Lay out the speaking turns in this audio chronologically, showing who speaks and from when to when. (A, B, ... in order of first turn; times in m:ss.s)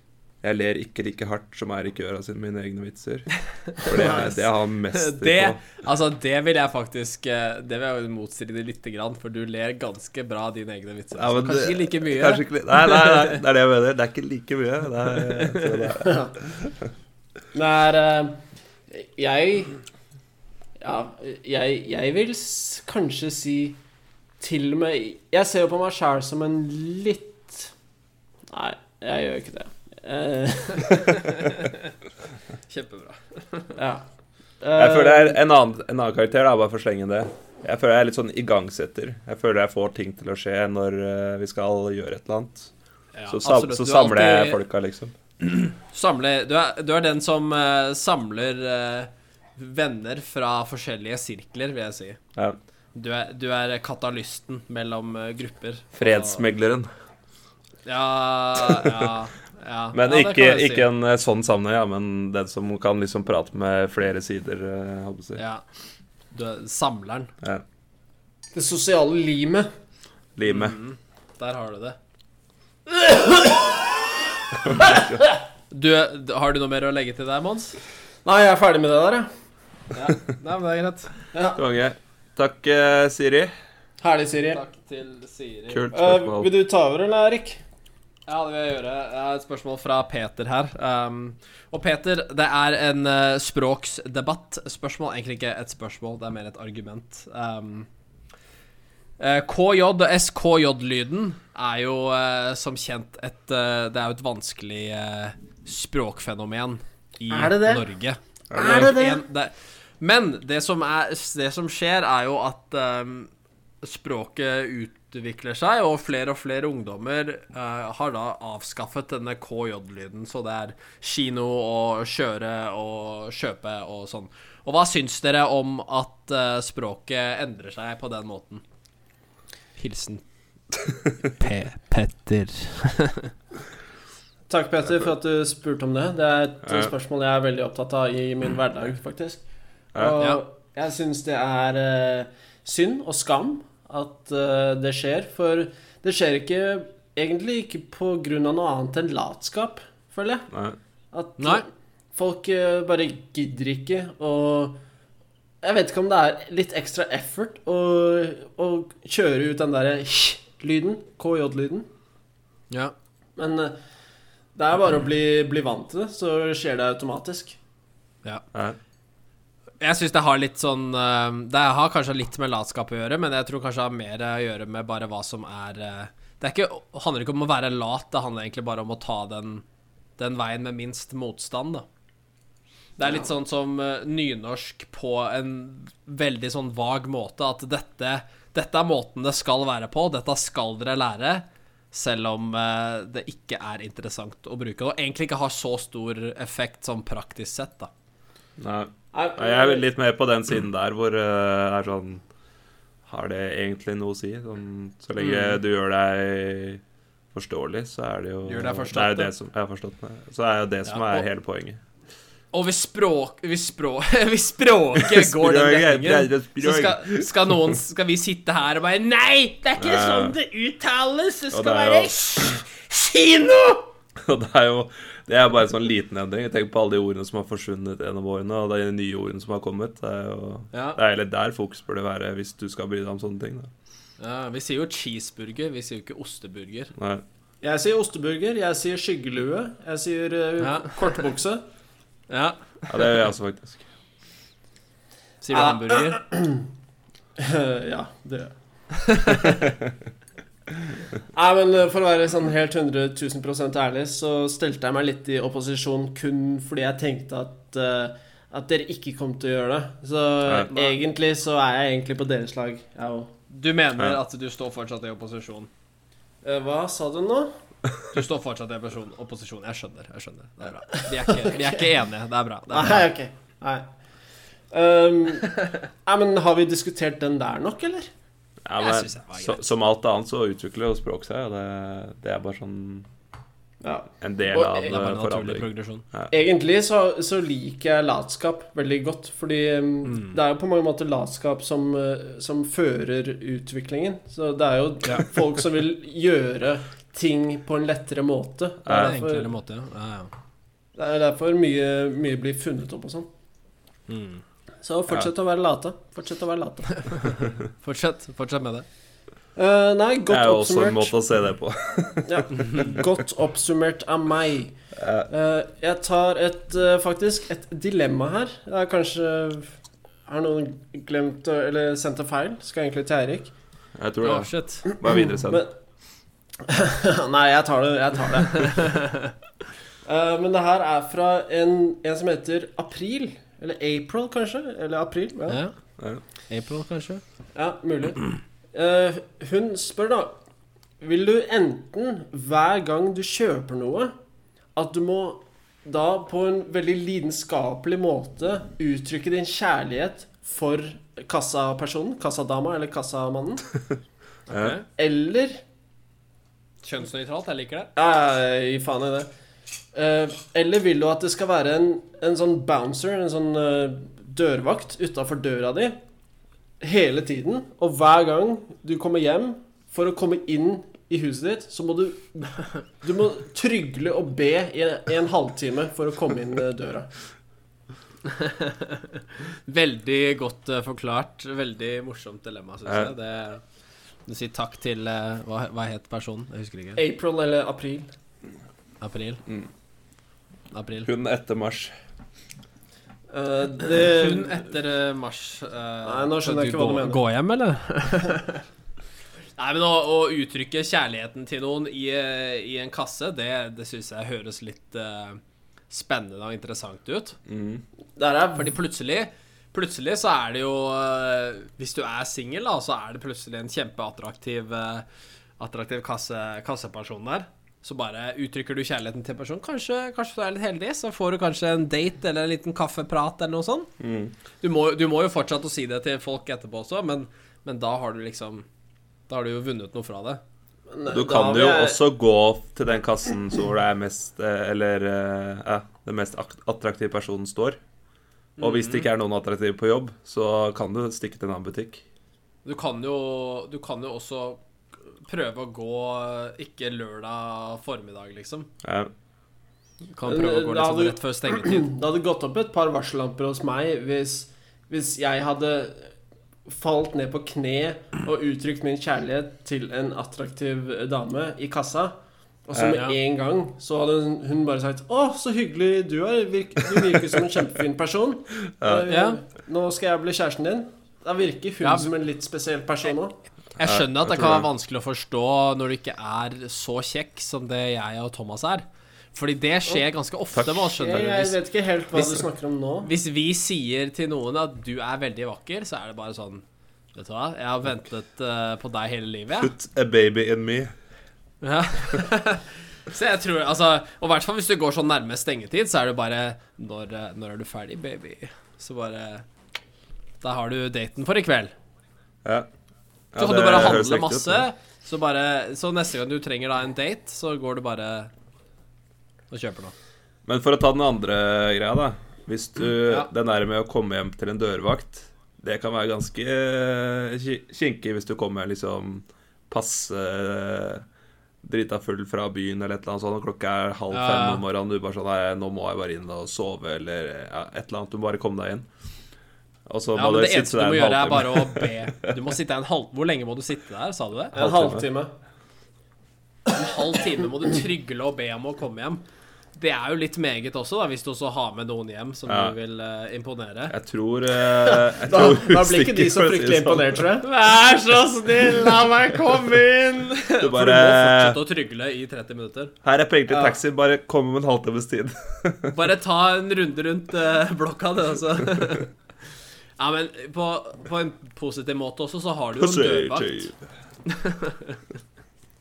0:00.4-0:05.6 A
0:03.8-0:04.4 B
0:04.9-0:13.4 B
0:11.2-0:16.9 A
0:15.1-0:15.8 B
0:16.0-0:16.3 C
0:17.5-0:18.4 C
0:18.9-0:19.8 C
0:20.8-0:23.8 C
0:24.4-0:27.7 C
0:28.5-0:31.6 C
0:31.1-0:31.8 B
0:32.7-0:33.8 B
0:33.8-0:34.0 C
0:34.6-0:35.4 C
0:34.8-0:42.7 A
0:43.1-0:44.6 B
0:43.3-0:45.1 A
0:45.4-0:52.2 B
0:52.9-0:56.4 B
0:56.0-0:56.9 A
0:57.9-1:00.9 B
0:59.9-1:05.4 A
1:05.4-1:05.6 B
1:06.3-1:07.3 B
1:08.5-1:09.7 C
1:10.4-1:10.8 A
1:10.4-1:12.0 B
1:12.9-1:13.8 C
1:14.6-1:15.2 A
1:15.7-1:17.8 B
1:18.2-1:19.3 C
1:19.9-1:21.1 B
1:21.3-1:21.6 C
1:21.5-1:23.5 A
1:24.0-1:24.6 C
1:24.5-1:25.9 B
1:25.7-1:26.5 A
1:25.9-1:27.6 C
1:28.3-1:37.9 B
1:39.2-1:53.3 B
1:47.3-1:47.8 C
1:48.5-1:48.9 A
1:48.5-1:49.2 C
1:53.8-2:08.6 B
2:09.8-2:10.2 B
2:10.9-2:11.1 A
2:11.4-2:13.3 B
2:14.5-2:19.4 C
2:16.6-2:16.9 A
2:19.9-2:30.5 C
2:30.5-2:30.8 A
2:31.1-2:31.6 C
2:31.4-2:31.6 B
2:32.1-2:34.8 C
2:35.6-2:41.9 C
2:43.4-2:43.8 C
2:44.5-2:47.6 C
2:49.8-2:59.6 B
3:00.2-3:01.9 B
3:03.0-3:17.9 B
3:03.0-3:03.3 C
3:18.6-3:22.2 A
3:19.1-3:19.8 C
3:23.0-3:26.8 A
3:25.2-3:25.6 B
3:27.3-3:31.8 A
3:28.4-3:29.3 B
3:30.9-3:31.2 B
3:32.5-3:43.9 B
3:35.0-3:37.7 A
3:39.8-3:40.4 A
3:41.5-3:42.2 A
3:44.2-3:53.7 A
3:50.7-3:51.0 B
3:54.2-3:56.9 B
3:57.0-3:57.2 A
3:57.6-4:01.6 C
4:00.6-4:01.2 B
4:02.3-4:03.1 B
4:02.9-4:03.9 A
4:05.4-4:06.2 B
4:05.5-4:06.7 C
4:07.4-4:08.5 C
4:08.9-4:09.6 B
4:11.3-4:23.3 C
4:20.7-4:21.0 B
4:23.5-4:25.7 B
4:26.4-4:27.5 C
4:28.1-4:33.0 B
4:31.3-4:31.8 C
4:32.7-4:33.9 C
4:34.7-4:38.1 C
4:38.6-4:43.1 A
4:38.8-4:39.7 B
4:43.8-4:44.8 C
4:44.2-4:46.3 A
4:44.6-4:46.0 B
4:46.3-4:59.5 C
4:50.0-4:50.4 B
4:58.9-4:59.2 A
4:58.9-5:00.3 B
5:01.0-5:03.3 C
5:04.1-5:04.4 B
5:04.8-5:07.4 C
5:07.0-5:08.9 B
5:09.6-5:11.2 C
5:10.3-5:13.1 A
5:12.2-5:14.7 C
5:12.6-5:12.9 B
5:15.0-5:15.3 A
5:15.3-5:19.7 C
5:20.3-5:23.5 C
5:24.0-5:25.6 A
5:24.2-5:24.9 B
5:24.9-5:25.7 C
5:26.6-5:29.0 C
5:28.7-5:29.3 B
5:30.0-5:35.6 C
5:35.5-5:35.7 B
5:36.5-5:37.2 B
5:37.5-5:38.2 C
5:38.7-5:40.4 C
5:41.0-5:44.1 C
5:44.8-5:53.7 C
5:54.5-5:54.8 B
5:54.5-5:54.8 A
5:54.9-5:55.6 C
5:56.8-5:57.9 B
5:58.0-5:59.3 C
5:59.9-6:06.0 C
6:06.8-6:17.1 C
6:18.2-6:23.6 B
6:22.9-6:23.1 A
6:24.3-6:27.0 B
6:27.0-6:28.1 C
6:29.0-6:29.4 B
6:30.7-6:31.1 B
6:31.0-6:31.9 A
6:33.3-6:34.7 C
6:33.9-6:38.6 B
6:36.0-6:37.2 C
6:39.6-6:47.4 B
6:47.5-6:47.8 A
6:48.2-6:48.7 C
6:48.5-6:55.0 B
6:55.6-7:03.9 B
7:04.0-7:04.3 A
7:04.6-7:08.6 B
7:09.3-7:10.4 B
7:10.9-7:12.0 C
7:11.1-7:17.8 A
7:18.6-7:19.1 B
7:18.6-7:22.0 A
7:22.6-7:24.6 B
7:25.2-7:28.7 B
7:28.8-7:29.1 A
7:30.1-7:31.9 B
7:30.2-7:36.1 C
7:36.7-7:42.1 C
7:42.7-7:53.4 C
7:42.9-7:43.2 B
7:48.8-7:49.1 A
7:49.1-7:49.4 B
7:51.8-7:52.1 B
7:53.8-8:01.6 B
7:53.8-7:54.7 A
8:00.5-8:01.2 A
8:00.9-8:03.1 C
8:03.0-8:06.6 B
8:07.1-8:09.7 B
8:09.6-8:10.9 A
8:11.6-8:19.4 B
8:20.4-8:21.7 B
8:23.3-8:24.6 A
8:23.4-8:28.3 B
8:29.5-8:29.9 B
8:30.4-8:41.0 A
8:41.6-8:48.9 A
8:44.1-8:44.6 B
8:49.9-8:52.3 A
8:50.1-8:54.5 B
8:54.5-8:55.3 C
8:54.5-8:55.0 A
8:56.7-8:59.2 B
8:59.8-9:03.9 B
9:02.5-9:02.7 A
9:03.9-9:07.2 A
9:04.8-9:07.5 C
9:07.4-9:12.9 B
9:10.6-9:11.6 A
9:13.0-9:16.0 A
9:13.5-9:13.8 C
9:15.9-9:19.1 B
9:20.0-9:23.7 B
9:22.8-9:23.8 A
9:24.2-9:25.0 B